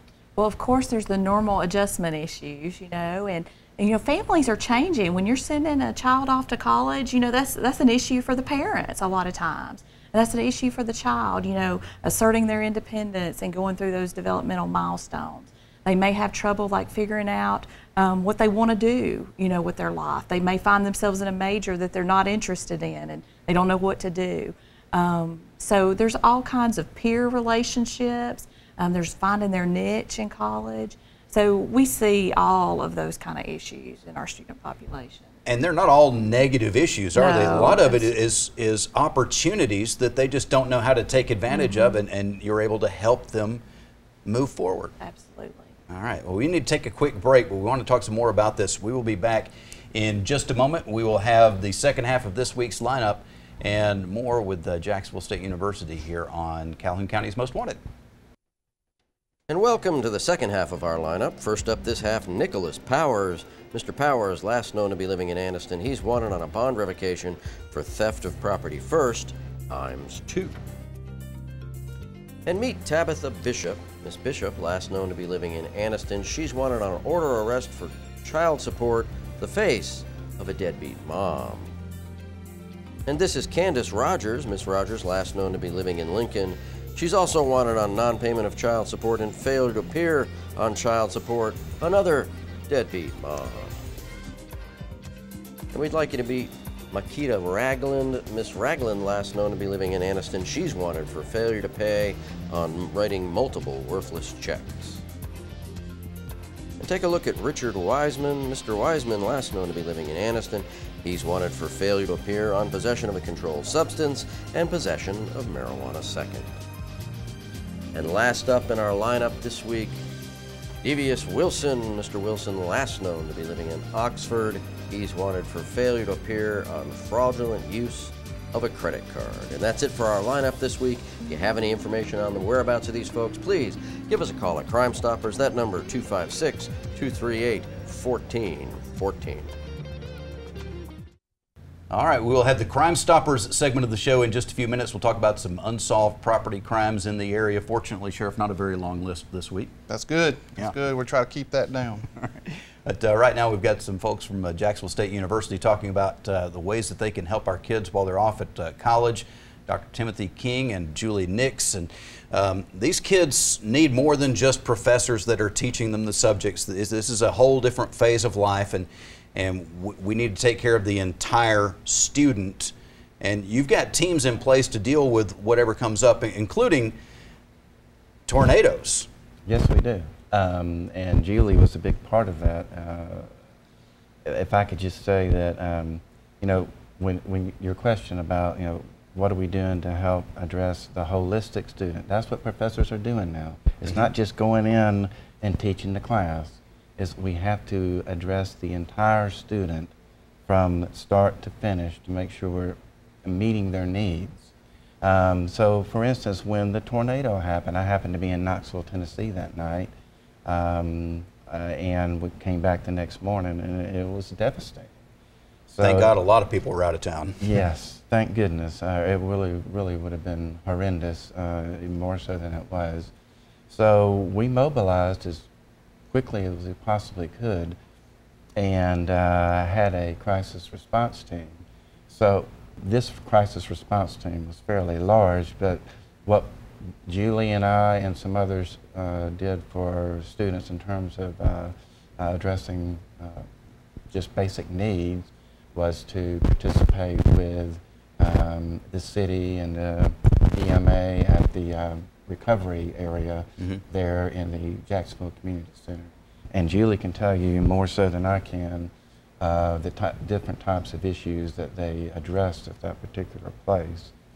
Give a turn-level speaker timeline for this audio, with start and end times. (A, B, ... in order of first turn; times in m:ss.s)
0:00.4-0:35.3 A
0:35.4-0:43.6 B
0:37.1-0:38.1 A
0:41.5-0:41.9 A
0:44.2-0:44.9 B
0:45.0-0:45.7 A
0:45.9-0:57.8 B
0:59.5-1:10.6 C
1:12.4-1:21.7 C
1:23.1-1:33.8 C
1:35.7-1:45.0 C
1:46.8-1:56.6 C
1:57.9-2:00.0 C
2:00.8-2:19.5 C
2:21.9-2:29.7 B
2:29.9-2:32.0 D
2:32.2-2:57.0 B
2:58.3-2:59.1 B
2:59.4-3:03.3 E
3:04.2-3:19.9 E
3:20.5-3:24.5 E
3:25.0-3:29.9 E
3:30.4-3:34.9 E
3:35.7-3:36.2 E
3:35.8-3:37.6 B
3:37.4-3:43.1 E
3:43.7-3:45.5 E
3:46.1-3:47.8 E
3:48.6-3:56.5 E
3:57.0-4:03.5 E
4:04.1-4:24.1 E